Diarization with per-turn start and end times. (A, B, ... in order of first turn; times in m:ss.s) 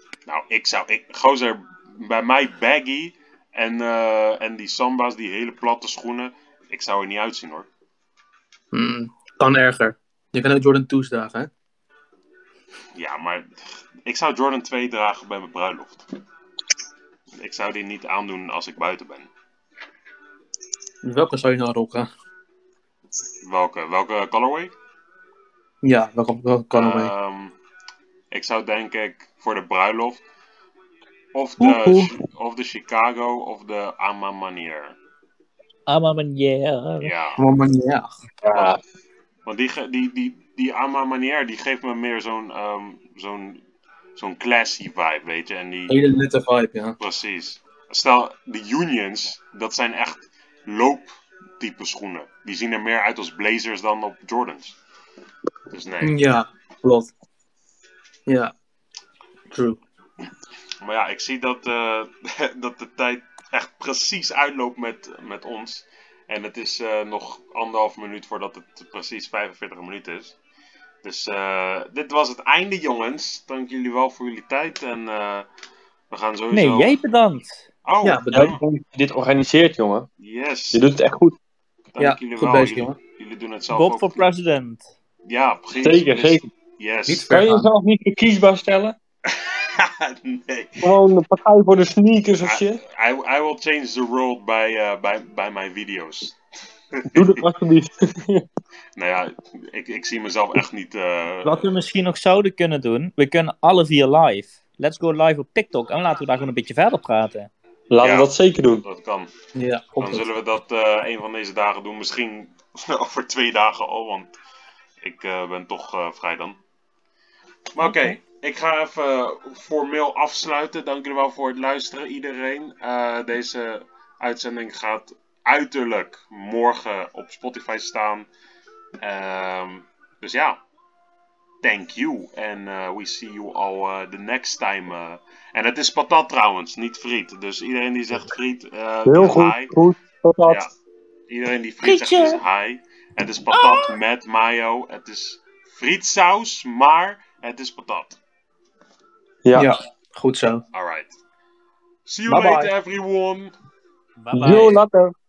0:00.3-0:07.7 A
0:08.7-0:11.5 B
0:13.0-0:16.1 A
0:17.4-0:19.3 A
0:21.0-0:22.1 B
0:23.4-0:24.7 A
0:25.8-0:27.1 B
0:26.7-0:27.6 A
0:28.3-0:30.2 A
0:31.3-0:35.0 A
0:31.6-0:32.1 C
0:35.9-0:37.1 C
0:37.0-0:37.4 A
0:37.4-0:38.1 B
0:38.4-0:38.8 D
0:39.5-0:43.6 A
0:44.2-0:46.0 A
0:45.9-0:47.0 B
0:47.0-0:51.1 A
0:51.6-0:54.8 A
0:55.7-0:56.2 A
0:56.0-0:57.1 B
0:58.3-0:58.5 B
0:59.5-0:59.8 B
1:00.8-1:10.4 A
1:11.0-1:15.5 A
1:16.1-1:17.0 A
1:16.5-1:17.6 C
1:17.8-1:18.6 A
1:18.0-1:18.6 B
1:18.3-1:20.1 D
1:20.2-1:20.8 A
1:20.7-1:21.4 D
1:21.9-1:24.3 A
1:22.0-1:23.0 B
1:23.7-1:24.8 C
1:25.3-1:27.3 A
1:25.8-1:26.5 D
1:27.1-1:27.7 B
1:27.2-1:29.0 D
1:29.3-1:30.9 A
1:30.8-1:32.8 D
1:32.4-1:36.4 A
1:36.9-1:37.3 A
1:37.1-1:38.5 D
1:39.0-1:41.7 A
1:41.4-1:47.5 C
1:47.9-1:48.8 D
1:48.0-1:48.3 A
1:48.8-1:49.3 A
1:49.6-1:50.3 B
1:50.0-1:54.3 A
1:55.0-1:56.6 A
1:57.7-2:08.3 A
2:09.0-2:10.6 A
2:11.6-2:19.7 A
2:19.1-2:20.6 D
2:20.5-2:20.7 A
2:21.3-2:28.2 A
2:21.8-2:22.4 C
2:23.5-2:23.9 C
2:29.4-2:29.7 D
2:29.5-2:30.6 B
2:30.7-2:31.1 A
2:32.1-2:33.5 A
2:32.3-2:32.7 B
2:34.2-2:34.8 C
2:34.3-2:35.1 D